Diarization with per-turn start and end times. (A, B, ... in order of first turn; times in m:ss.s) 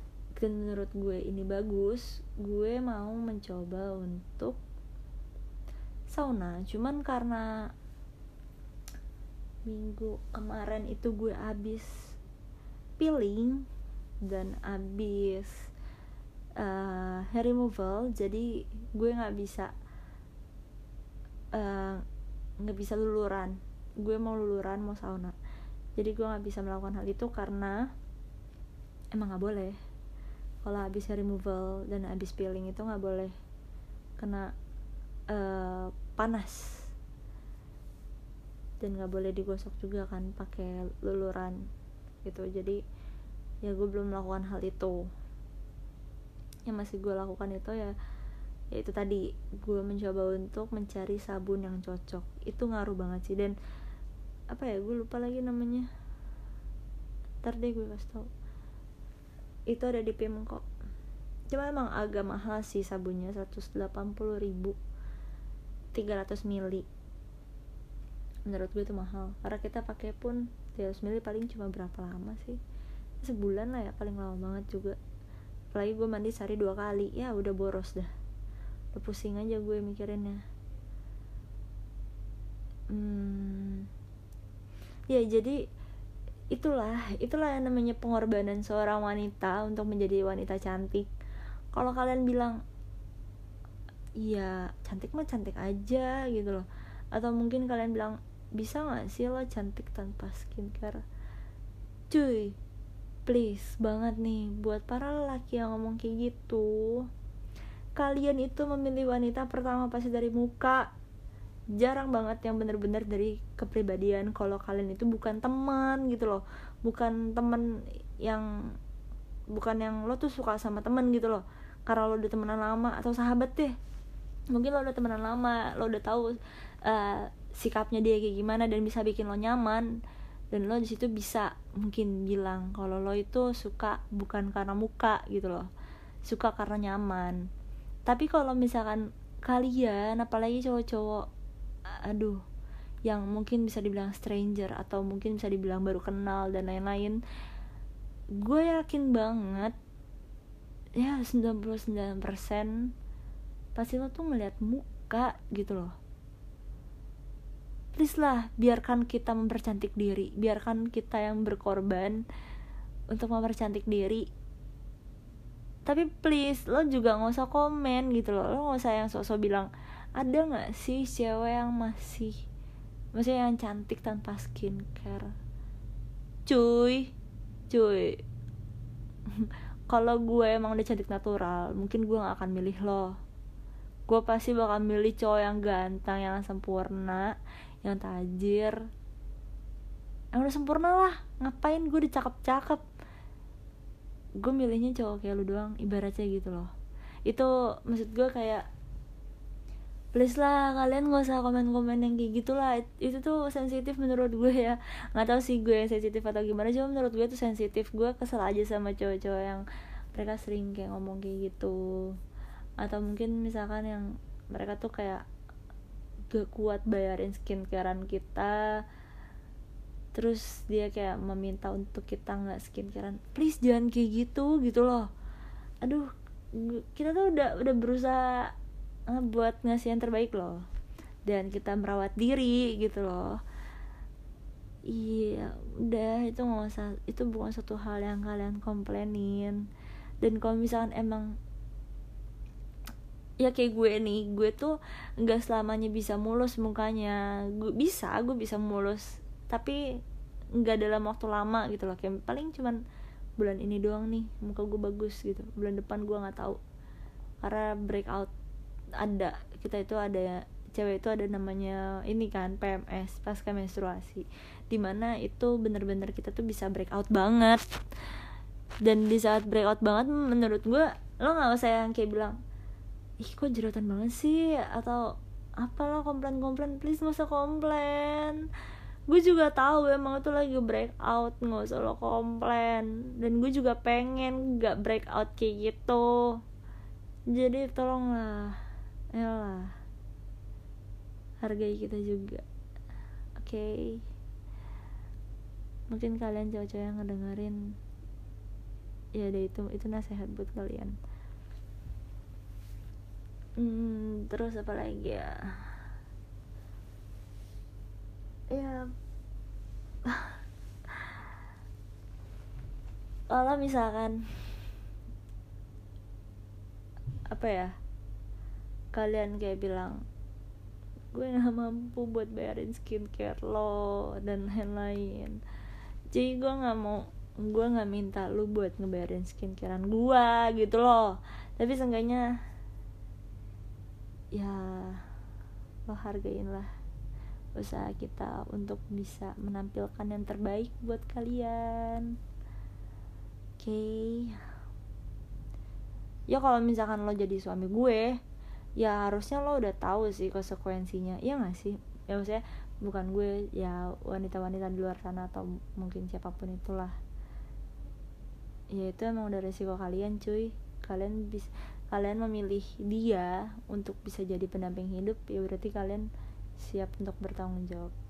0:00.4-0:04.6 A
0:06.1-0:07.5 A
0:09.7-0:11.9 A
0:13.0-0:13.7 A
0:14.2-0:15.6 A
0:16.6-0:19.7 A
0:21.5-0:22.0 A
0:22.6-0:25.4 A
0:26.0-0:27.9 A
0:29.1-0:29.8 A
0:30.6-0:33.3 A
0:34.2-0:34.5 A
0:35.3-0:36.9 A
0:38.8-0:41.6 A
0:42.2-0:42.8 A
0:43.6-0:45.0 A
0:46.7-0:47.9 A
0:48.7-0:53.6 A
0:54.5-0:55.9 A
0:57.4-0:58.3 A
0:59.7-1:00.6 A
1:01.5-1:04.8 A
1:05.9-1:06.9 A
1:08.5-1:12.6 A
1:13.2-1:15.0 A
1:15.7-1:18.1 A
1:19.0-1:20.4 A
1:22.9-1:23.9 A
1:25.1-1:25.6 A
1:26.5-1:31.1 A
1:31.7-1:32.6 A
1:34.2-1:41.0 A
1:42.1-1:42.6 A
1:43.3-1:47.1 A
1:48.0-1:50.9 A
1:51.8-1:57.7 A
1:59.5-2:03.7 A
2:04.5-2:09.9 A
2:10.5-2:15.7 A
2:16.3-2:17.4 A
2:18.1-2:21.3 A
2:21.9-2:22.4 A
2:23.1-2:27.2 A
2:28.4-2:29.8 A
2:31.0-2:32.9 A
2:33.8-2:35.9 A
2:38.0-2:42.2 A
2:43.1-2:44.3 A
2:45.9-2:52.4 A
2:53.2-2:55.3 A
2:56.5-2:57.1 A
2:57.7-2:58.2 A
2:59.3-3:03.2 A
3:04.1-3:08.8 A
3:10.4-3:12.8 A
3:14.4-3:16.7 A
3:17.3-3:18.7 A
3:20.1-3:32.2 A
3:32.8-3:35.2 A
3:36.3-3:38.8 A
3:40.1-3:45.1 A
3:45.8-3:48.5 A
3:49.1-3:50.6 A
3:51.3-3:53.4 A
3:54.9-3:59.6 A
4:00.2-4:01.4 A
4:03.4-4:09.8 A
4:10.6-4:12.8 A
4:13.4-4:16.6 A
4:17.4-4:18.3 A
4:19.0-4:27.6 A
4:28.8-4:32.4 A
4:33.2-4:38.4 A
4:39.1-4:46.1 A
4:47.3-4:48.6 A
4:49.1-4:49.7 A
4:51.4-4:52.4 A
4:53.4-4:54.0 A
4:55.9-4:57.6 A
4:59.2-5:01.0 A
5:03.6-5:05.7 A
5:08.5-5:08.9 A
5:10.1-5:10.4 A
5:13.3-5:14.3 A
5:17.3-5:17.8 A
5:18.9-5:20.0 A
5:21.1-5:25.4 A
5:26.1-5:32.3 A
5:34.3-5:35.0 A
5:35.9-5:36.7 A
5:37.6-5:42.1 A
5:43.6-5:44.4 A
5:46.3-5:48.2 A
5:48.8-5:57.0 A
5:58.7-6:06.1 A
6:06.6-6:07.9 A